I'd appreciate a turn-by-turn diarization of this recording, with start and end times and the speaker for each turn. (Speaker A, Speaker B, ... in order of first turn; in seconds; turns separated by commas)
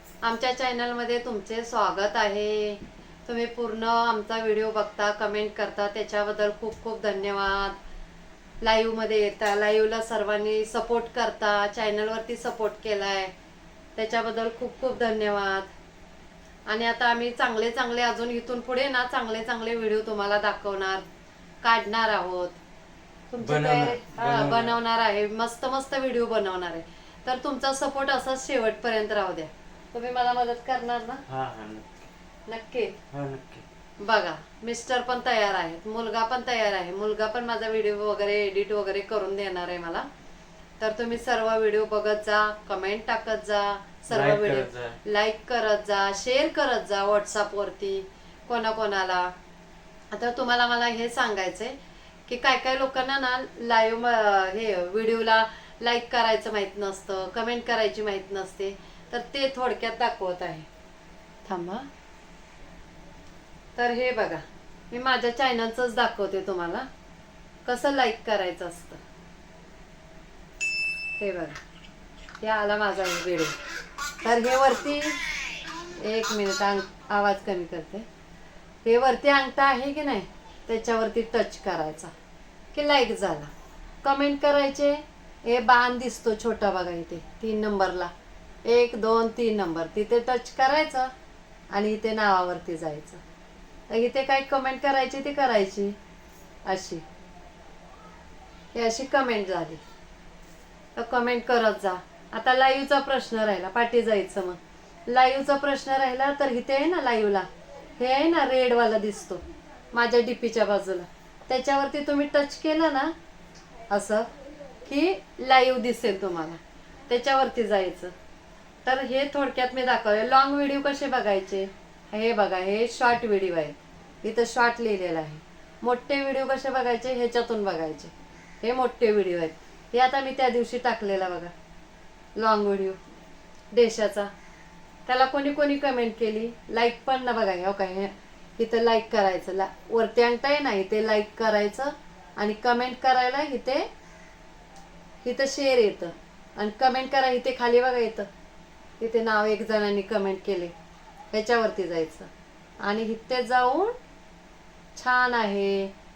Speaker A: 0.2-7.8, Speaker A: 8.6-13.3, Speaker A: 13.9-15.7, Speaker A: 16.7-21.0, Speaker A: 21.6-22.6, Speaker A: 23.3-31.2, Speaker B: 23.4-24.8, Speaker B: 31.3-32.0, Speaker A: 32.5-33.0, Speaker B: 33.1-33.6, Speaker A: 34.0-40.1, Speaker A: 40.8-49.3, Speaker B: 44.1-45.0, Speaker A: 50.1-60.7, Speaker A: 61.5-61.9, Speaker A: 63.8-66.9, Speaker A: 67.7-69.0, Speaker A: 71.2-71.6, Speaker A: 72.4-73.5, Speaker A: 74.2-75.2, Speaker A: 76.0-78.1, Speaker A: 78.8-82.1, Speaker A: 82.7-83.5, Speaker A: 84.0-88.1, Speaker A: 88.6-91.1, Speaker A: 91.7-93.2, Speaker A: 93.9-96.0, Speaker A: 96.7-97.0, Speaker A: 98.7-99.8, Speaker A: 101.0-107.5, Speaker A: 108.0-113.1, Speaker A: 113.9-114.3, Speaker A: 114.8-118.1, Speaker A: 118.8-131.5, Speaker A: 132.3-133.0, Speaker A: 133.7-134.3, Speaker A: 135.1-143.9, Speaker A: 145.2-148.3, Speaker A: 149.0-150.7, Speaker A: 151.3-152.3, Speaker A: 152.8-153.9, Speaker A: 154.9-155.9